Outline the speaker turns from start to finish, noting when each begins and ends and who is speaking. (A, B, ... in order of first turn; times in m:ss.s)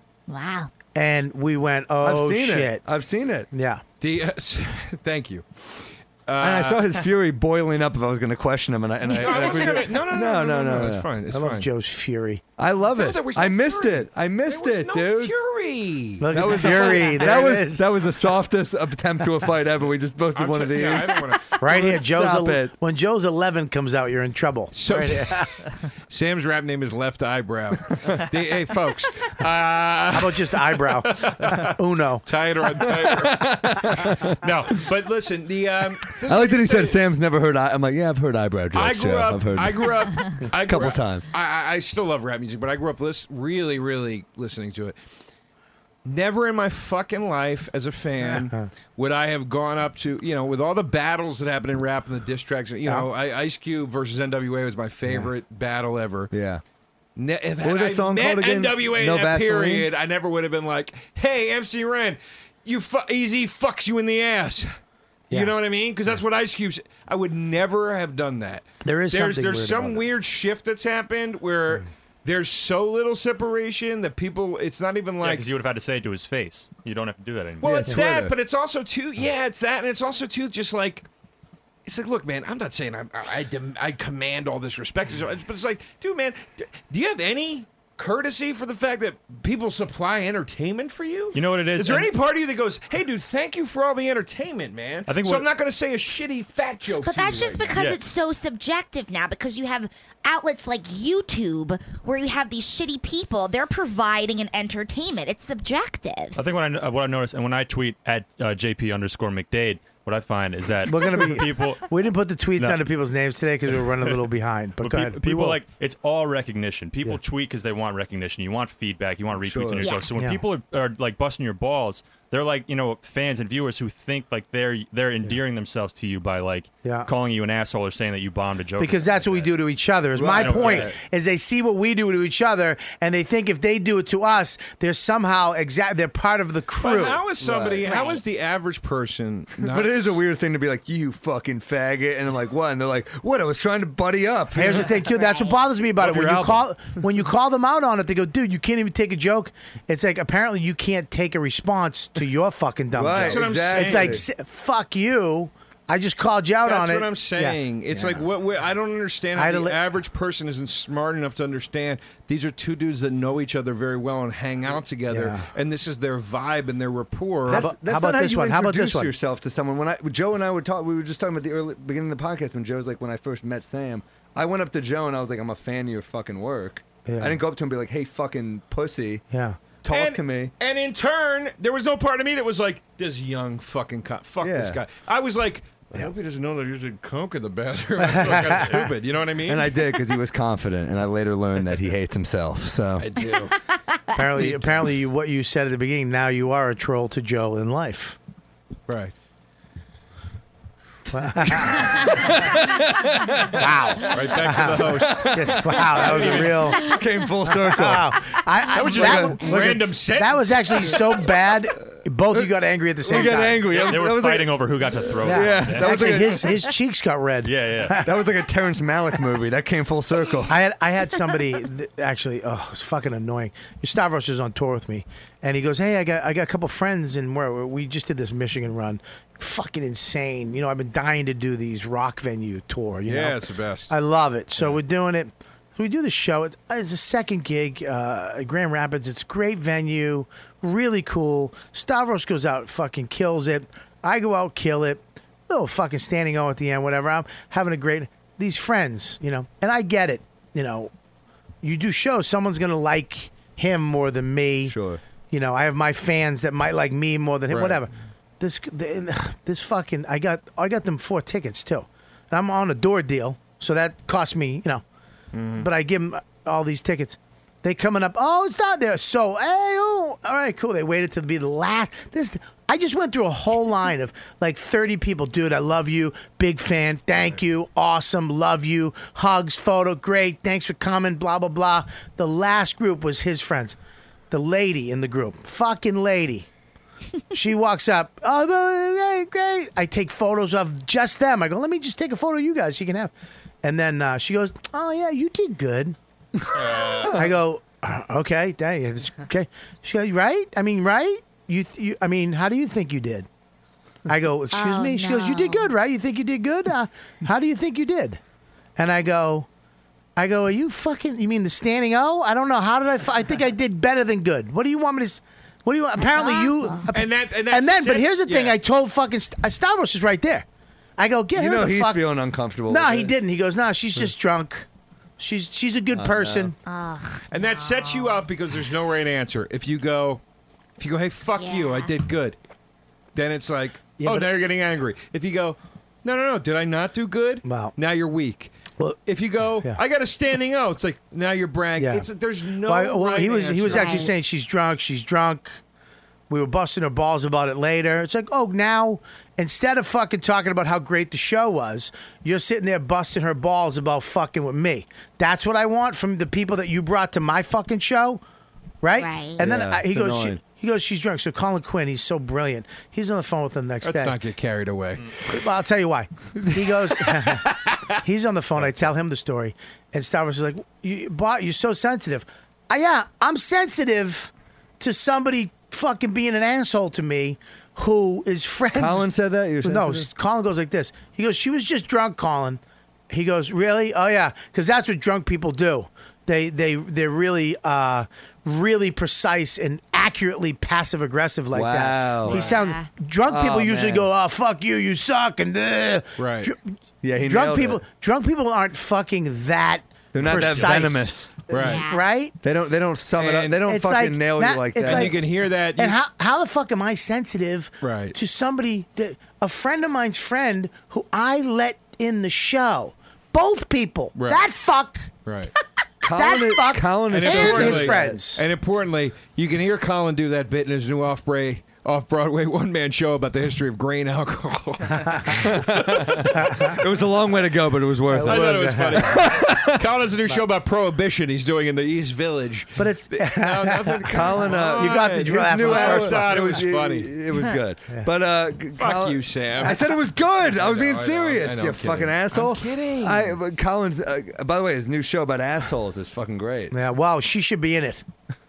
0:00.3-0:00.7 A
0:01.0-0:02.8 B
0:02.0-0:03.5 C
0:03.5-0:03.8 B
0:04.0-0:05.5 D
0:06.3-0:07.0 D
0:06.4-0:11.1 C
0:09.0-0:11.7 D
0:11.3-0:12.4 B
0:12.6-0:15.3 C
0:12.9-0:17.3 D
0:16.2-0:17.8 B
0:16.3-0:22.7 C
0:20.3-0:21.6 D
0:21.6-0:25.5 B
0:24.7-0:25.5 D
0:26.1-0:37.0 D
0:30.1-0:32.2 B
0:32.9-0:34.8 C
0:36.2-0:39.8 C
0:38.7-0:45.0 D
0:40.6-0:41.3 C
0:46.0-0:56.3 D
0:48.2-0:48.7 B
0:56.3-0:56.6 C
0:57.2-1:04.7 D
0:57.6-0:59.9 C
1:05.3-1:15.5 D
1:08.8-1:10.1 B
1:15.2-1:17.9 E
1:17.6-1:21.1 D
1:17.6-1:18.3 C
1:21.9-1:37.8 D
1:31.3-1:32.1 E
1:35.1-1:35.5 E
1:37.0-1:46.4 A
1:46.4-1:51.8 E
1:50.9-1:55.6 B
1:54.8-2:09.5 E
1:59.3-2:00.0 C
1:59.8-2:00.1 A
2:00.2-2:00.4 B
2:06.8-2:07.1 B
2:08.8-2:17.2 B
2:10.2-2:11.0 C
2:10.2-2:10.9 E
2:16.8-2:20.2 D
2:17.4-2:17.8 C
2:17.8-2:18.2 A
2:19.6-2:24.9 C
2:24.5-2:38.3 B
2:26.0-2:26.6 C
2:32.9-2:34.2 C
2:33.3-2:34.2 D
2:36.6-2:47.7 D
2:39.4-2:39.8 B
2:45.1-2:45.5 B
2:47.5-2:49.1 B
2:47.5-2:59.2 C
2:57.1-2:57.4 B
2:59.3-2:59.6 B
2:59.8-3:00.5 C
2:59.9-3:09.8 D
3:04.4-3:04.8 C
3:08.0-3:08.9 B
3:09.5-3:13.1 C
3:13.0-3:13.5 D
3:14.1-3:18.2 B
3:14.4-3:14.8 D
3:18.9-3:19.1 D
3:21.1-3:22.3 B
3:21.6-3:23.6 C
3:23.5-3:33.9 B
3:24.1-3:27.0 D
3:24.9-3:28.2 C
3:28.7-3:31.3 D
3:28.8-3:29.9 C
3:33.0-3:36.5 C
3:33.1-3:33.8 D
3:33.7-3:36.4 E
3:35.2-3:38.1 B
3:37.4-3:38.1 E
3:37.8-3:40.5 C
3:40.5-4:10.9 B
3:53.1-3:53.9 D
4:11.6-4:14.8 B
4:14.7-4:15.0 C
4:15.3-4:24.8 B
4:17.5-4:17.8 D
4:25.3-4:25.7 D
4:25.6-4:43.8 B
4:44.3-4:46.5 B
4:47.3-4:53.1 B
4:53.6-4:56.0 B
4:56.6-4:57.1 E
4:57.0-5:03.3 B
5:04.1-5:08.2 B
5:04.5-5:05.7 A
5:08.8-5:09.5 B
5:10.2-5:20.5 B
5:16.1-5:16.9 A
5:16.9-5:18.6 D
5:21.0-5:22.1 B
5:21.3-5:23.1 C
5:22.7-5:24.7 B
5:25.2-5:26.6 B
5:25.9-5:26.5 C
5:26.6-5:28.2 A
5:27.3-5:30.2 D
5:30.8-5:32.4 D
5:31.4-5:31.9 A
5:33.2-5:38.5 D
5:34.0-5:34.3 B
5:37.4-5:37.7 B
5:39.1-5:44.1 D
5:41.8-5:42.1 B
5:42.6-5:45.6 B
5:43.7-5:44.1 A
5:46.3-5:58.2 B
5:58.8-6:04.2 B
5:59.0-5:59.4 A
5:59.4-6:00.4 C
6:03.8-6:05.2 D
6:05.3-6:19.1 B
6:06.4-6:07.8 D
6:18.7-6:20.1 C
6:19.6-6:36.6 B
6:31.5-6:32.5 C
6:32.3-6:32.9 A
6:33.3-6:34.1 C
6:36.2-6:36.5 D
6:37.0-6:37.8 C
6:37.2-6:42.4 B
6:40.1-6:41.4 C
6:40.2-6:40.8 E
6:41.5-6:41.8 D
6:41.6-6:42.0 A
6:42.4-6:45.2 C
6:43.2-6:43.6 D
6:43.6-6:55.1 B
6:44.8-6:46.0 D
6:47.8-6:48.2 D
6:54.2-6:54.4 D
6:55.3-6:55.5 D
6:56.0-6:58.1 C
6:56.1-6:58.4 B
6:57.1-7:06.3 D
7:05.3-7:09.8 C
7:08.1-7:09.3 B
7:08.2-7:17.1 D
7:12.8-7:16.6 B
7:14.1-7:26.7 C
7:18.8-7:23.4 D
7:26.7-7:28.1 B